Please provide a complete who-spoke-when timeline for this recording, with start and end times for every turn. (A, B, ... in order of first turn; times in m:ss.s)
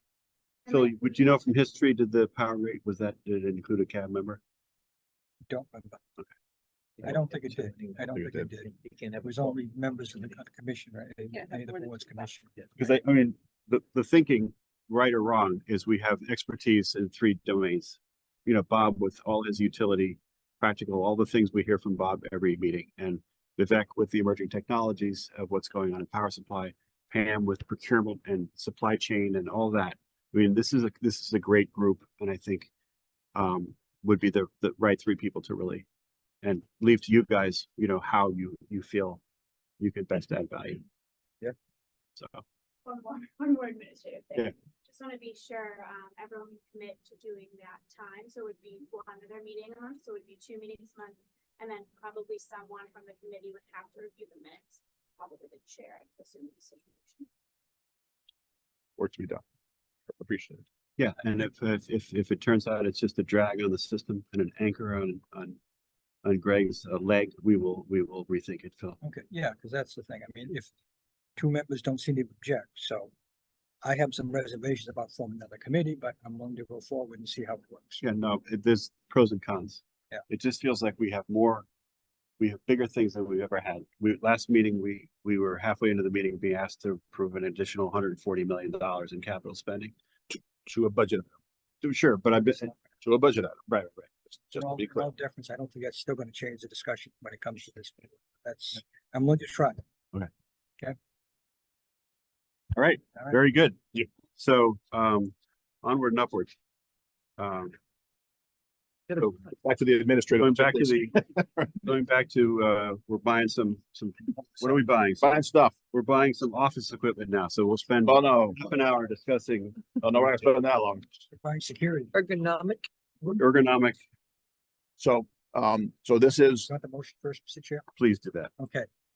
0:00.7-0:04.4 A
0:00.7-0:01.3 B
0:05.5-0:06.0 C
0:07.0-0:08.1 D
0:07.0-0:12.5 C
0:08.7-0:09.5 D
0:12.8-0:32.7 A
0:33.4-0:35.9 A
0:36.4-0:39.2 A
0:39.8-0:40.8 A
0:42.2-0:42.4 A
0:42.8-0:57.3 B
0:59.0-0:59.4 E
1:00.1-1:00.6 E
1:01.0-1:05.6 A
1:06.2-1:09.0 A
1:09.0-1:10.7 C
1:11.4-1:13.1 C
1:13.8-1:18.0 C
1:18.0-1:21.7 A
1:22.4-1:29.9 A
1:30.6-1:31.3 E
1:31.8-1:32.7 A
1:33.0-1:33.7 E
1:33.7-1:34.1 A
1:34.3-1:35.1 E
1:34.6-1:39.8 C
1:42.8-1:46.5 A
1:47.4-1:47.7 A
1:49.2-1:51.7 E
1:50.4-1:51.2 A
1:51.8-1:55.3 A
1:55.2-1:55.8 E
1:55.9-2:00.0 A
1:58.0-1:58.6 E
2:00.0-2:01.1 E
2:01.3-2:02.2 C
2:02.2-2:02.9 D
2:03.4-2:04.0 A
2:05.0-2:06.7 E
2:06.7-2:07.8 C
2:08.0-2:08.5 A
2:08.6-2:08.9 C